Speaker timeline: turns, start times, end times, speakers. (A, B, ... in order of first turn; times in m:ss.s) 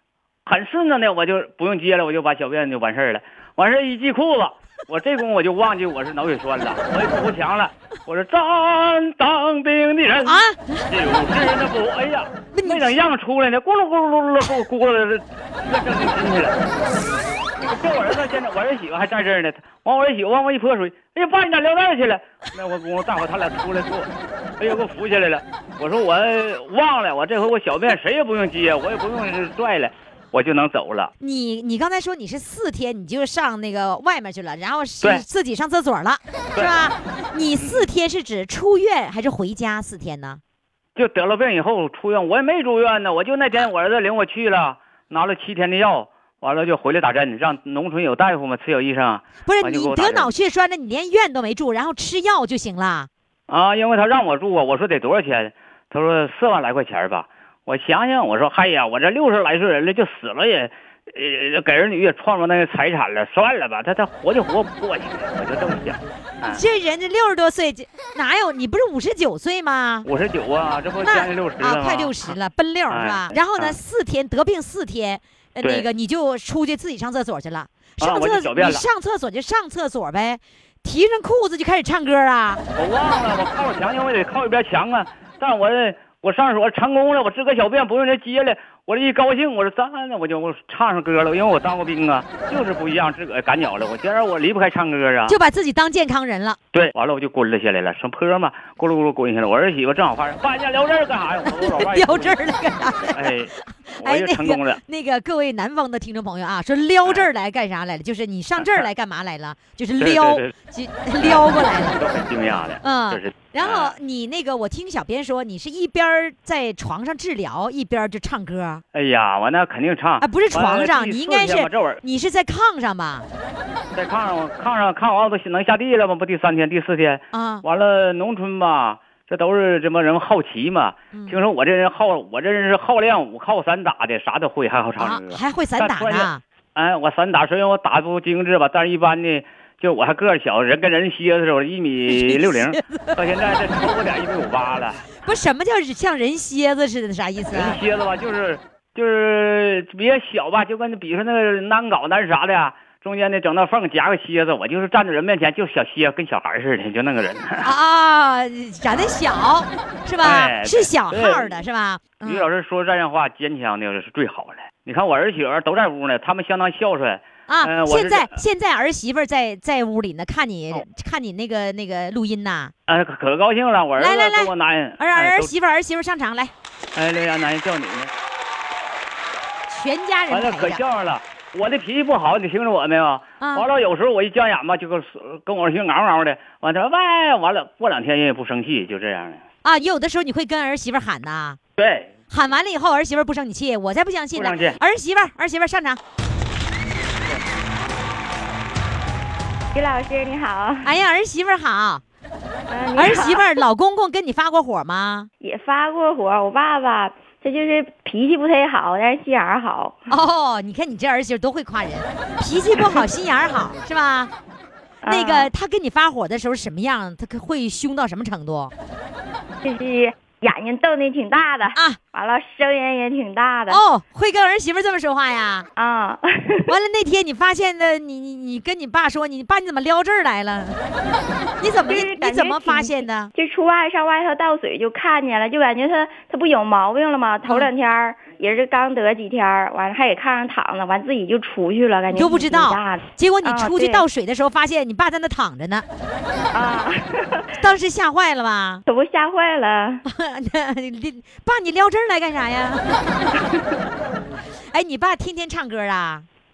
0:00.5-0:16.6 A
0:10.2-0:10.9 B
0:12.5-0:12.9 B
0:17.6-0:31.1 A
0:31.2-0:40.4 B
0:37.6-0:37.9 A
0:41.0-0:50.3 A
0:49.4-0:53.1 B
0:53.5-1:06.6 A
1:06.4-1:10.1 B
1:10.0-1:12.3 A
1:11.0-1:22.6 B
1:12.9-1:13.8 A
1:18.0-1:18.8 A
1:22.8-1:35.4 A
1:35.3-1:36.6 B
1:36.7-1:42.4 A
1:41.4-1:52.0 B
1:43.1-1:44.8 A
1:48.6-1:48.9 A
1:50.0-1:50.6 A
1:51.2-1:54.0 A
1:52.8-1:58.8 B
1:58.9-2:02.0 A
2:00.2-2:03.3 B
2:04.0-2:25.0 A
2:07.3-2:07.6 B
2:11.1-2:11.4 B
2:15.0-2:16.4 B
2:22.1-2:23.1 B
2:25.2-2:27.8 B
2:27.5-2:37.7 A
2:37.6-2:42.5 B
2:40.2-2:41.6 A
2:42.2-2:48.3 A
2:47.5-2:52.7 B
2:52.9-2:55.5 A
2:54.0-2:56.5 B
2:57.0-2:58.1 A
2:59.7-3:00.8 B
3:00.3-3:09.4 A
3:03.4-3:03.7 B
3:09.6-3:11.6 B
3:11.8-3:12.1 A
3:12.3-3:16.0 B
3:14.4-3:14.8 A
3:19.7-3:20.9 C
3:20.8-3:22.0 B
3:22.7-3:23.6 C
3:23.0-3:25.3 B
3:25.4-3:30.0 C
3:30.1-3:34.3 B
3:35.0-3:35.5 C
3:35.1-3:38.7 B
3:39.6-3:43.8 C
3:41.7-3:42.0 B
3:43.7-3:45.7 B
3:45.8-3:46.7 C
3:46.7-3:50.8 B
3:51.6-3:53.3 B
3:51.9-4:04.0 C
4:02.1-4:05.8 B
4:06.5-4:07.5 C
4:07.6-4:08.8 B
4:08.9-4:10.0 C
4:10.1-4:13.5 B
4:14.7-4:16.3 B